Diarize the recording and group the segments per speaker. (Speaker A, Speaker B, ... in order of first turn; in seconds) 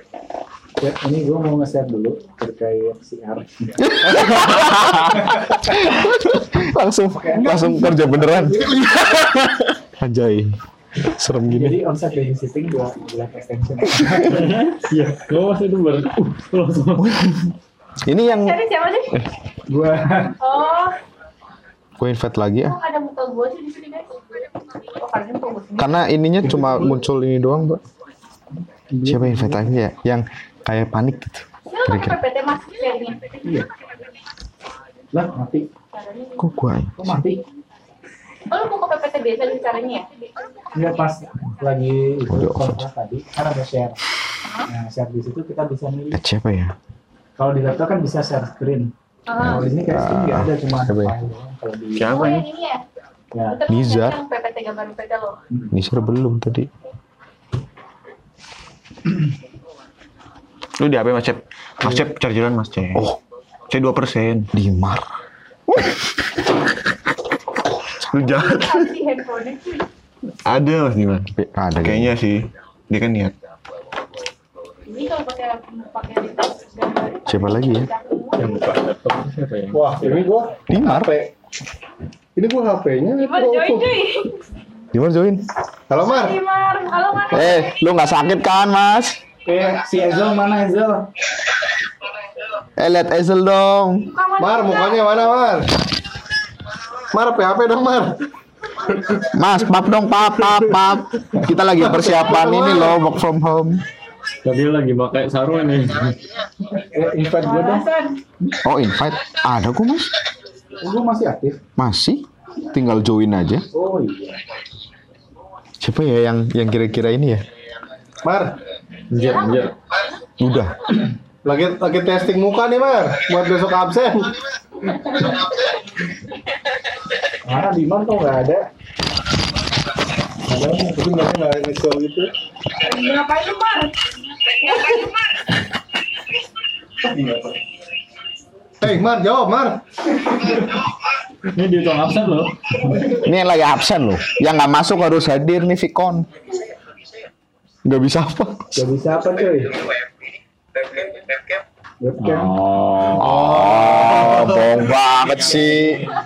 Speaker A: 0.8-4.5, 5.3-5.5, 7.1-7.6, 11.5-14.6, 19.7-20.4, 28.9-29.7, 35.1-35.7, 37.0-37.4, 40.7-44.0, 44.7-46.2, 47.4-52.2, 53.3-53.6, 89.4-91.1, 106.8-107.9, 110.8-111.6, 113.7-114.4, 127.4-128.7, 148.7-149.8, 152.0-152.6
Speaker B: 3.8-8.8, 10.0-11.8, 18.0-18.6, 22.0-22.8, 25.8-27.8, 29.0-32.2, 36.4-37.3, 42.3-42.8, 46.1-46.7, 49.4-51.1, 53.7-54.2, 55.7-56.7, 64.5-65.0, 71.3-72.1, 77.3-77.9, 80.7-81.1, 84.9-85.5, 87.3-89.2, 92.8-94.1, 99.3-103.8, 108.6-110.1, 111.8-113.7, 115.8-117.4, 120.4-120.8, 143.2-146.3, 147.8-148.8, 153.1-156.0
Speaker C: 7.4-9.0, 79.7-81.3, 82.3-83.9, 85.9-86.4, 94.4-95.7, 97.1-98.2, 98.9-99.2, 101.7-103.0, 118.2-118.5, 121.4-124.3, 130.5-132.3, 138.8-139.8, 153.2-154.8
Speaker D: 14.3-17.2, 78.3-80.3, 104.4-106.2, 119.1-119.7, 141.5-143.0, 152.2-153.6
Speaker E: 18.2-19.2, 20.4-21.0, 22.6-24.2, 24.9-26.1, 31.7-33.4, 35.9-36.5, 38.5-40.9, 49.3-49.7, 52.0-52.8, 53.5-55.4, 68.2-69.9, 74.9-78.6, 83.2-84.4, 86.0-87.8, 94.1-95.5, 107.4-108.2, 119.2-119.7, 132.8-135.1
Speaker F: 52.0-52.5, 60.8-63.0, 63.7-64.5, 68.1-68.9, 70.4-73.3